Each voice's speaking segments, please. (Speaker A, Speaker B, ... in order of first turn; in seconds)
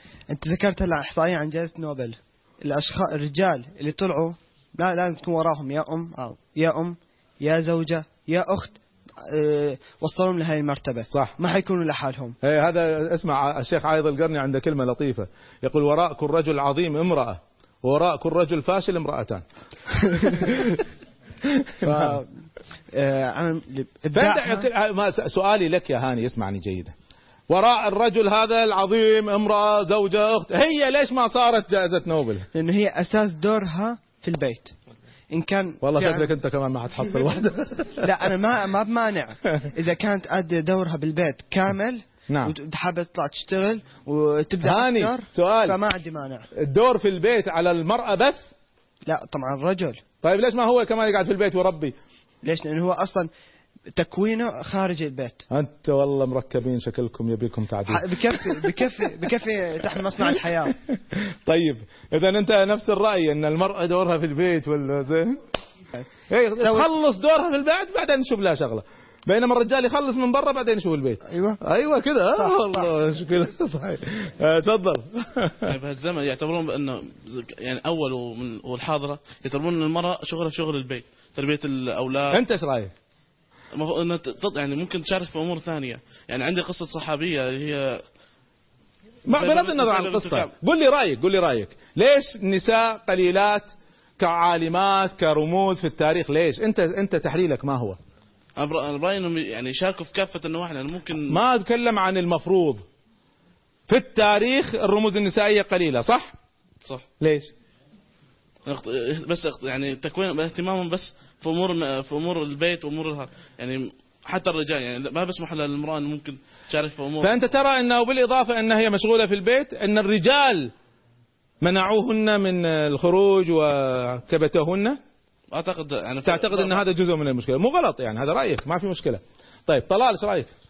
Speaker A: 0.3-12.4, 21.8-22.3, 22.9-24.7, 32.5-34.8, 35.3-36.3, 38.0-46.5, 49.1-50.0, 52.4-53.3, 53.9-55.4, 57.9-60.8, 71.3-71.6
Speaker B: 11.1-11.3, 12.4-20.8, 21.6-22.1, 24.1-26.9, 27.5-32.5, 35.8-38.1, 42.3-42.5, 44.6-45.8, 46.5-48.5, 50.2-52.0, 55.5-58.9, 60.7-65.4, 66.3-75.7, 82.3-82.9, 89.3-98.0, 101.3-102.8, 103.9-106.3, 107.2-107.5, 117.2-120.7, 121.6-125.0, 126.2-130.5
Speaker C: 75.7-82.4, 83.8-88.0, 89.3-90.5, 98.6-101.3, 108.7-117.5, 125.5-126.8